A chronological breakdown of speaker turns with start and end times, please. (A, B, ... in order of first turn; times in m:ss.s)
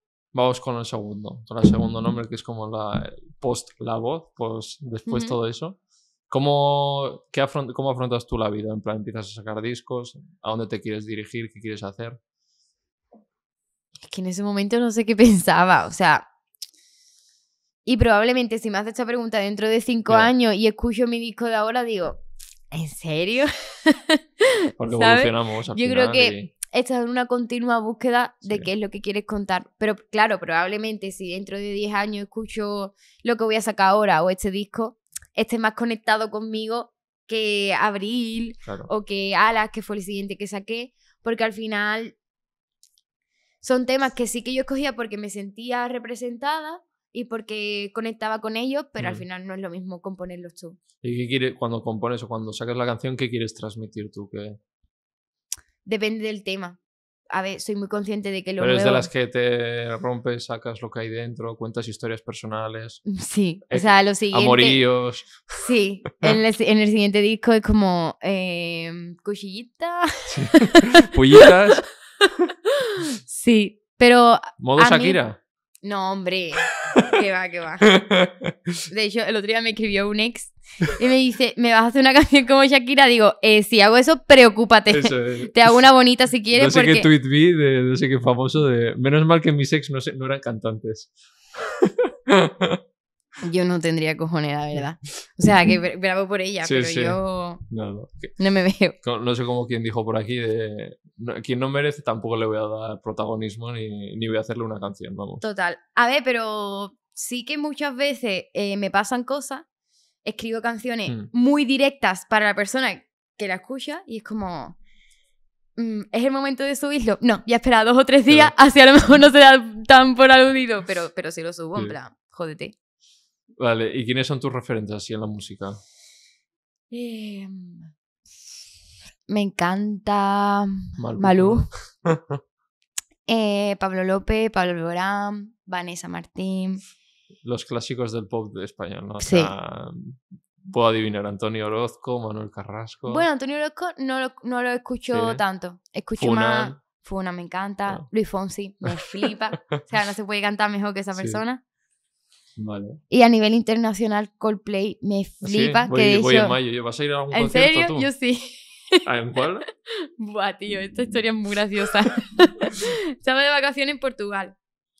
0:00.3-0:05.8 A
0:05.0-0:05.4 B
0:06.3-0:12.2 A
0:14.0-0:16.2 B
0:17.8-0:42.1 B
0:24.8-0:26.5 A
0:43.6-0:50.8 B
0:49.0-0:49.2 A
0:51.0-0:54.6 A
0:55.8-0:56.8 B
0:57.3-0:59.1 B
0:58.6-1:03.0 A
1:03.1-1:04.8 B
1:03.7-1:05.6 A
1:05.5-1:11.5 B
1:10.3-1:11.9 A
1:12.8-1:15.2 B
1:14.6-1:15.4 A
1:15.8-1:17.9 B
1:17.9-1:18.8 A
1:18.9-1:27.1 B
1:24.9-1:25.7 A
1:26.5-1:32.8 A
1:33.4-1:37.6 B
1:36.6-1:38.4 A
1:38.4-1:39.0 B
1:39.0-1:45.4 A
1:45.4-1:49.6 B
1:50.2-1:54.8 B
1:55.8-2:02.7 B
1:58.3-1:58.5 A
2:03.6-2:05.8 A
2:06.9-2:07.9 B
2:09.3-2:11.7 B
2:11.0-2:12.4 A
2:13.3-2:16.8 B
2:17.4-2:23.2 A
2:19.2-2:19.5 B
2:23.0-2:31.6 B
2:25.1-2:25.4 A
2:26.2-2:26.8 A
2:31.2-2:31.4 A
2:32.6-2:33.0 A
2:33.1-2:36.6 B
2:35.4-2:38.1 A
2:37.3-2:39.0 B
2:39.0-2:39.6 A
2:39.6-2:44.6 B